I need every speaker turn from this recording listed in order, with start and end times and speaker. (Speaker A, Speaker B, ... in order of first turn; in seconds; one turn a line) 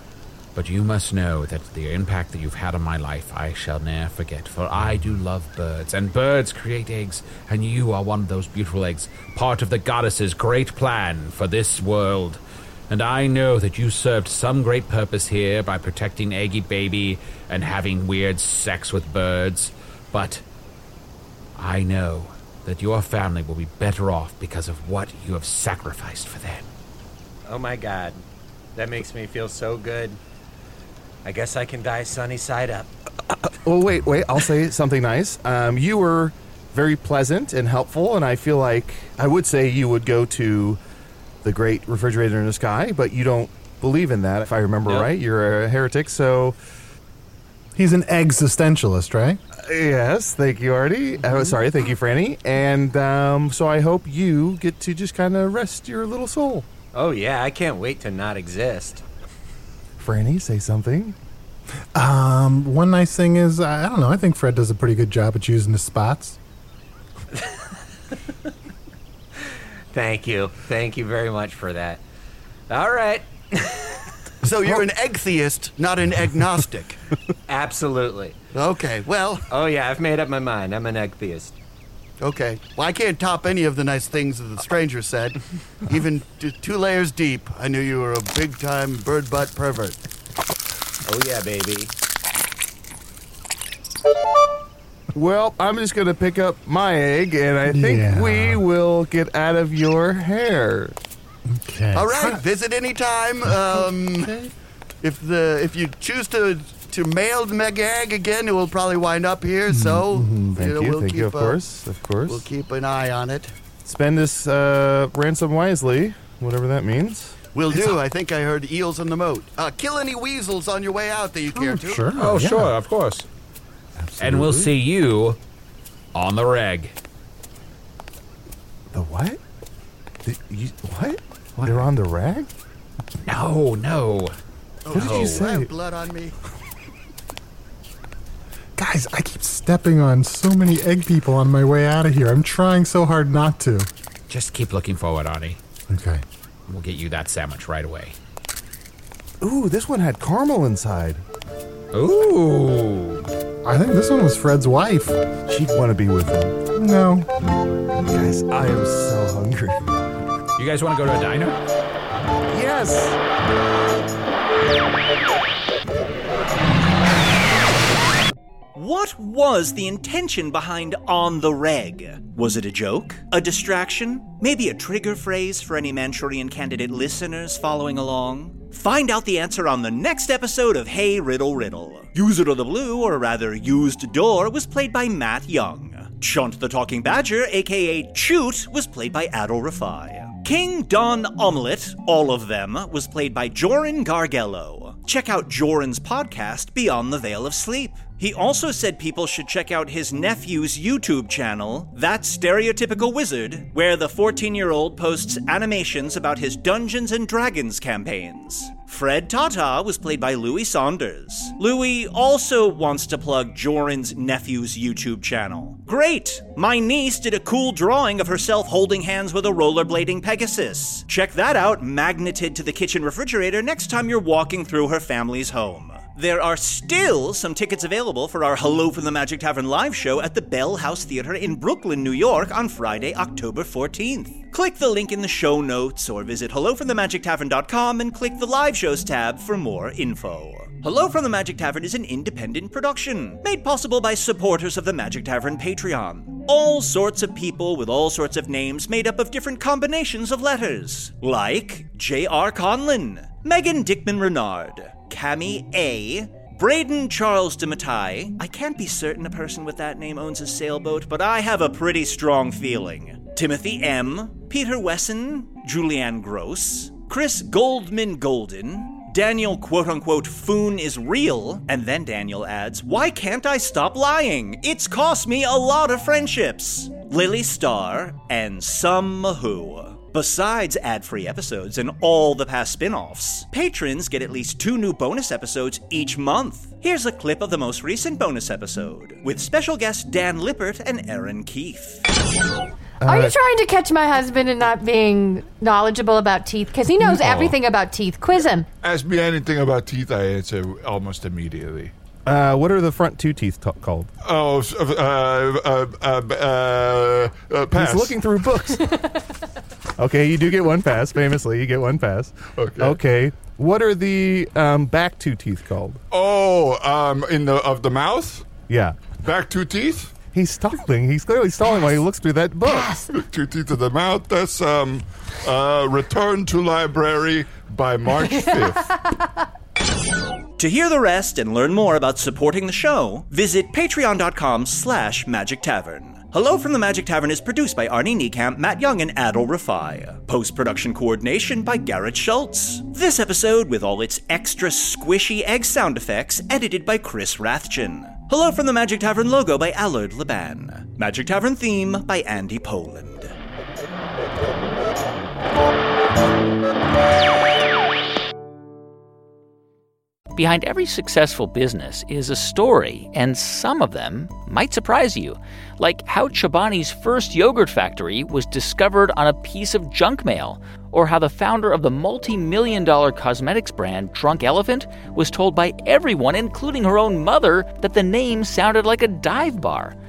Speaker A: 0.6-20.4
Speaker A: 21.6-26.7
Speaker B: 27.5-28.2
Speaker B: 28.8-30.2
Speaker B: 31.2-32.9
Speaker C: 33.4-40.8
Speaker C: 41.4-46.6
Speaker D: 47.8-49.4
Speaker C: 49.5-56.7
Speaker B: 51.3-51.5
Speaker B: 56.9-59.0
Speaker C: 60.0-61.2
Speaker D: 62.0-66.4
Speaker B: 67.3-67.6
Speaker B: 69.9-72.0
Speaker B: 72.7-74.1
Speaker E: 74.4-77.0
Speaker B: 77.5-78.4
Speaker E: 78.5-79.5
Speaker B: 79.5-81.5
Speaker E: 82.2-90.0
Speaker B: 91.0-91.9
Speaker C: 95.1-101.0
Speaker D: 97.7-98.6
Speaker D: 101.6-102.4
Speaker E: 101.9-104.3
Speaker D: 103.5-104.5
Speaker E: 105.0-111.6
Speaker D: 109.7-110.6
Speaker C: 110.5-112.5
Speaker E: 112.3-113.5
Speaker C: 113.8-117.4
Speaker E: 117.5-122.1
Speaker D: 121.5-122.7
Speaker A: 122.1-123.3
Speaker C: 124.0-124.7
Speaker A: 124.2-125.4
Speaker A: 126.1-126.9
Speaker C: 128.9-129.4
Speaker C: 130.2-132.5
Speaker A: 133.3-134.3
Speaker E: 134.8-136.3
Speaker C: 134.9-135.7
Speaker A: 134.9-135.5
Speaker D: 138.8-143.9
Speaker A: 144.3-145.6
Speaker D: 145.9-146.2
Speaker A: 146.7-148.2
Speaker C: 149.4-151.2
Speaker A: 151.9-153.2
Speaker D: 153.7-155.2
Speaker C: 155.5-156.6
Speaker D: 156.8-157.3
Speaker C: 158.0-160.0
Speaker A: 160.6-161.6
Speaker C: 162.5-163.2
Speaker F: 168.8-292.0
Speaker C: 293.0-293.3
Speaker G: 293.0-298.7
Speaker C: 297.0-297.6
Speaker H: 298.8-301.9
Speaker C: 302.3-304.1
Speaker H: 304.2-308.1
Speaker C: 307.7-308.9
Speaker C: 310.0-316.0
Speaker H: 312.5-313.0
Speaker H: 316.1-318.5
Speaker C: 318.7-319.0
Speaker H: 319.2-320.1
Speaker C: 320.3-323.0
Speaker G: 322.7-323.1
Speaker H: 323.1-328.9
Speaker F: 330.6-353.3
Speaker I: 360.4-380.0